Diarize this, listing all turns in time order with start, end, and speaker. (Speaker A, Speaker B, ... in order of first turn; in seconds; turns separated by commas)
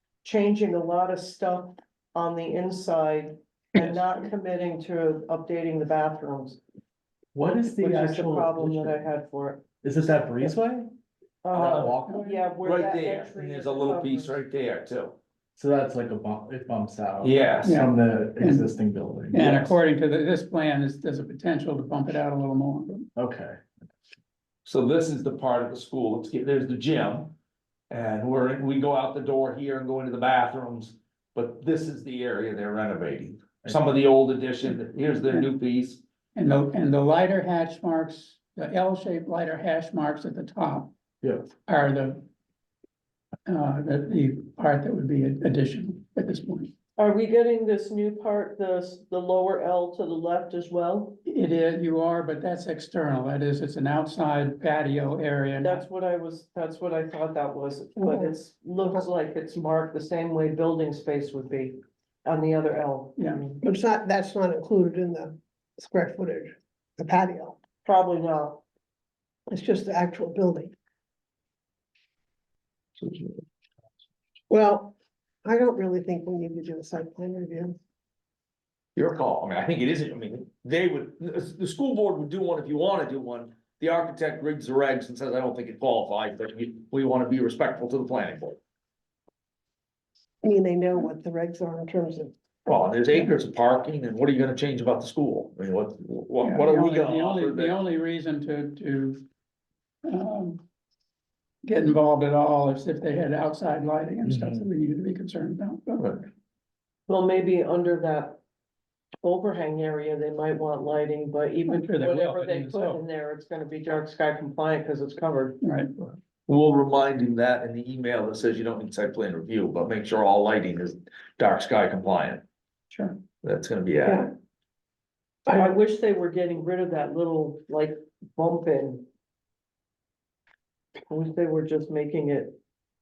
Speaker A: 0.2-6.6, Speaker B: 7.3-9.0, Speaker A: 7.8-9.6, Speaker B: 9.8-10.9, Speaker A: 11.4-14.4, Speaker C: 11.5-11.9, Speaker B: 11.5-12.4, Speaker C: 12.6-15.2, Speaker B: 15.6-19.8, Speaker C: 17.2-17.7, Speaker D: 17.6-18.7, Speaker D: 19.3-23.1, Speaker B: 23.2-23.7, Speaker C: 24.7-27.3, Speaker C: 27.9-36.0, Speaker D: 36.3-40.9, Speaker B: 41.2-41.5, Speaker D: 41.6-42.2, Speaker D: 43.5-46.7, Speaker A: 47.0-51.2, Speaker D: 51.3-55.8, Speaker A: 55.6-63.6, Speaker E: 58.0-58.3, Speaker E: 63.6-67.6, Speaker A: 67.8-68.6, Speaker E: 69.5-70.8, Speaker C: 73.0-73.4, Speaker E: 74.5-77.8, Speaker C: 79.0-88.6, Speaker E: 90.4-92.3, Speaker C: 92.7-97.8, Speaker D: 96.4-99.2, Speaker D: 100.1-100.6, Speaker D: 101.6-106.2, Speaker C: 106.0-106.2, Speaker A: 107.1-108.4, Speaker A: 109.2-115.6, Speaker D: 111.7-113.0, Speaker D: 115.6-115.9, Speaker C: 116.5-122.4, Speaker D: 122.9-123.2, Speaker C: 123.4-124.3, Speaker A: 125.5-129.1, Speaker A: 131.1-132.6